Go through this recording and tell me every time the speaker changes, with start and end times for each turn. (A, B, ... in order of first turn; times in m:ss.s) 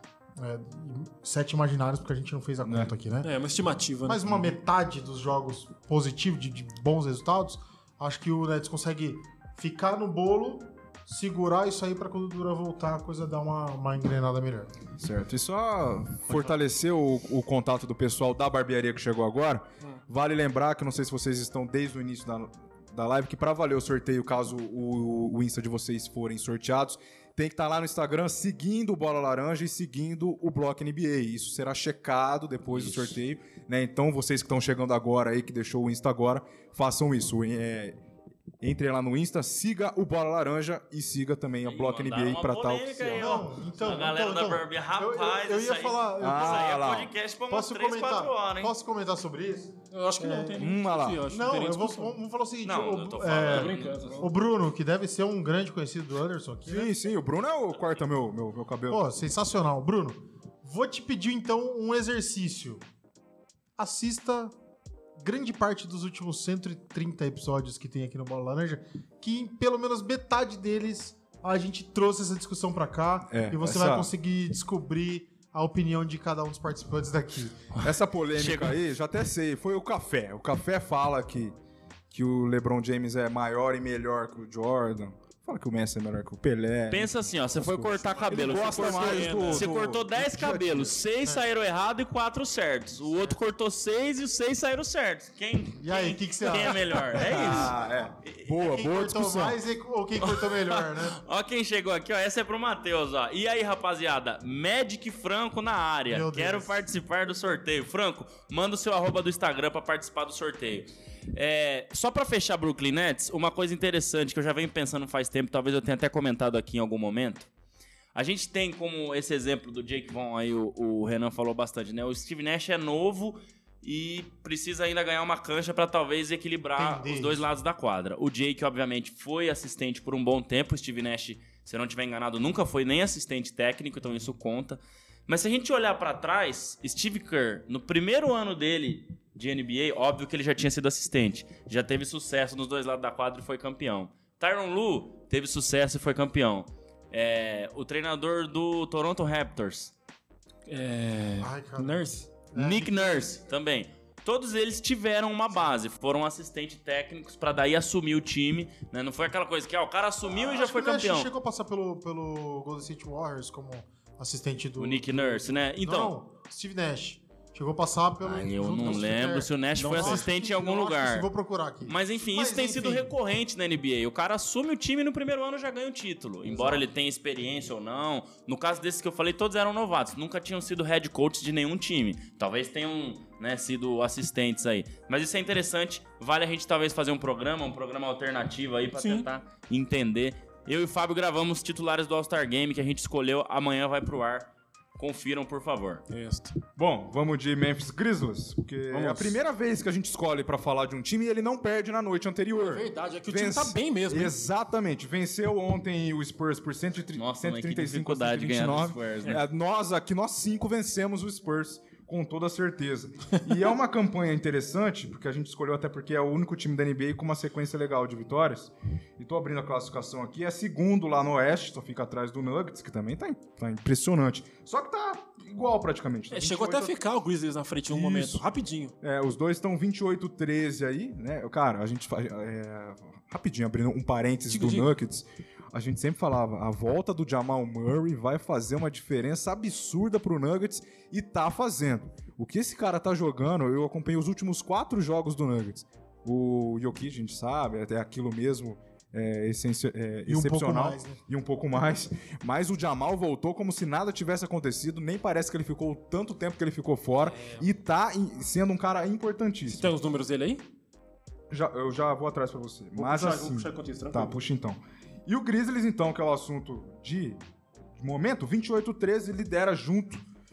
0:00.4-0:03.3 A
0:02.6-0:02.9 B
0:03.2-0:04.5 C
0:04.0-0:14.7 A
0:15.0-0:38.0 B
0:38.6-0:43.4 B
0:41.6-0:48.7 D
0:43.2-0:46.9 A
0:46.2-0:47.1 B
0:47.5-0:50.7 A
0:49.9-0:52.2 C
0:50.6-0:51.2 B
0:51.3-0:57.0 A
0:52.6-0:54.1 D
0:53.5-0:54.3 C
0:56.7-0:59.0 B
0:58.9-1:02.8 A
1:03.8-1:04.5 A
1:05.2-1:17.6 A
1:13.3-1:14.1 B
1:17.7-1:18.8 D
1:17.8-1:21.5 B
1:22.1-1:31.0 B
1:26.9-1:37.7 D
1:28.3-1:29.7 C
1:35.8-1:37.9 A
1:37.1-1:39.6 B
1:38.2-1:38.5 D
1:38.6-1:41.2 A
1:40.2-1:57.5 D
1:46.1-1:46.8 A
1:58.1-2:29.9 D
2:06.8-2:07.4 A
2:30.7-2:32.3 C
2:31.4-2:33.4 A
2:32.6-2:41.3 D
2:40.3-2:53.1 A
2:44.8-2:46.1 D
2:48.2-2:51.3 D
2:48.7-2:50.3 C
2:51.9-3:16.0 D
2:56.4-2:56.8 A
3:08.9-3:09.3 C
3:16.1-3:16.6 C
3:16.8-3:47.0 B
3:18.9-3:19.4 C
3:22.6-3:24.4 C
3:27.1-3:29.4 D
3:46.3-3:48.9 C
3:47.9-3:48.4 B
3:49.0-4:19.9 B
3:54.5-3:54.9 C
4:10.3-4:11.2 A
4:17.2-4:17.7 C
4:19.7-4:20.6 C
4:21.5-4:27.4 B
4:23.0-4:24.4 C
4:28.0-4:30.2 B